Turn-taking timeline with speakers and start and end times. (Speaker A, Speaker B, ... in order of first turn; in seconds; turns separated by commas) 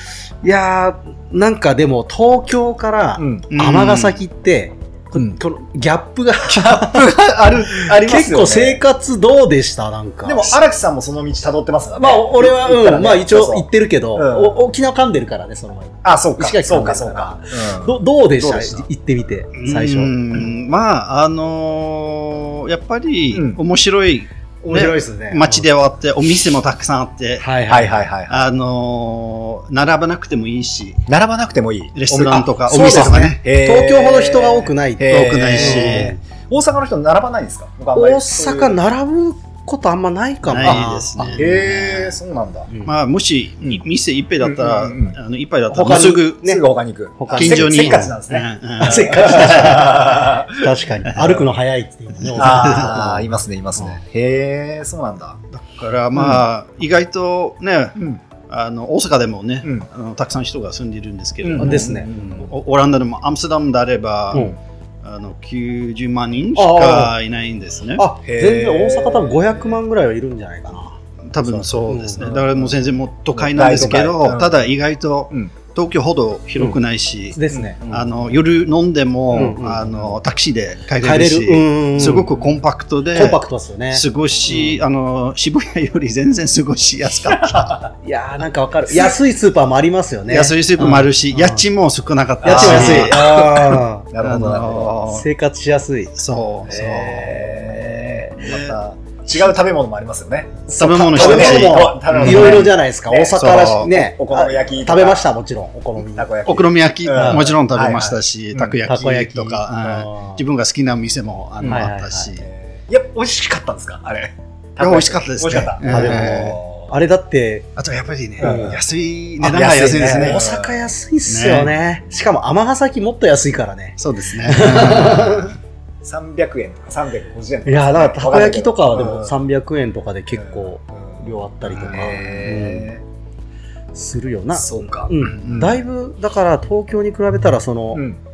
Speaker A: 0.4-7.1, Speaker B: 3.2-3.5, Speaker C: 3.5-4.2, Speaker B: 6.5-8.8, Speaker A: 7.7-10.6, Speaker B: 10.2-14.7, Speaker A: 11.9-20.1, Speaker B: 16.0-18.9, Speaker C: 19.5-27.5, Speaker B: 23.3-23.6, Speaker A: 24.6-25.6, Speaker A: 27.4-28.1, Speaker B: 27.7-28.5, Speaker C: 28.3-31.0, Speaker B: 31.1-38.8, Speaker C: 31.9-33.4, Speaker A: 32.7-36.2, Speaker C: 35.1-36.1, Speaker A: 37.9-41.5, Speaker C: 40.4-42.0, Speaker B: 41.3-42.7, Speaker C: 42.8-46.5, Speaker B: 44.4-45.1, Speaker A: 45.7-46.6, Speaker B: 46.4-51.4, Speaker A: 47.2-48.1, Speaker C: 47.3-50.0, Speaker A: 48.8-53.2, Speaker B: 52.4-55.4, Speaker C: 52.4-53.0, Speaker C: 55.5-58.0, Speaker B: 58.0-58.2, Speaker C: 58.5-68.0, Speaker B: 61.4-62.5, Speaker A: 61.6-62.1, Speaker A: 66.5-67.1, Speaker A: 68.0-72.3, Speaker B: 68.2-69.8, Speaker C: 71.3-87.8, Speaker B: 72.2-72.7, Speaker B: 73.3-74.7, Speaker A: 77.3-77.9, Speaker B: 77.5-78.0, Speaker A: 79.3-80.0, Speaker A: 81.0-82.3, Speaker A: 83.1-84.0, Speaker B: 87.3-87.9, Speaker A: 88.0-91.6, Speaker C: 90.3-95.2, Speaker A: 92.4-94.1, Speaker B: 92.4-95.0, Speaker A: 95.1-96.1, Speaker C: 96.2-97.4, Speaker B: 96.7-105.3, Speaker A: 96.7-98.3, Speaker C: 98.4-98.8, Speaker A: 100.7-106.3, Speaker C: 100.8-102.7, Speaker C: 103.4-103.9, Speaker B: 106.1-108.8, Speaker C: 106.5-112.5, Speaker A: 107.1-107.5, Speaker A: 108.9-110.4, Speaker A: 111.6-112.3, Speaker B: 112.4-116.9, Speaker C: 114.8-116.6, Speaker A: 115.9-117.7, Speaker C: 117.8-120.5, Speaker A: 118.4-118.8, Speaker B: 118.4-118.8, Speaker B: 119.4-120.9, Speaker A: 120.1-125.5, Speaker C: 121.3-121.7, Speaker C: 124.0-125.5, Speaker B: 126.0-129.3, Speaker A: 127.6-132.9, Speaker B: 130.4-133.0, Speaker A: 133.9-138.1, Speaker B: 134.5-135.8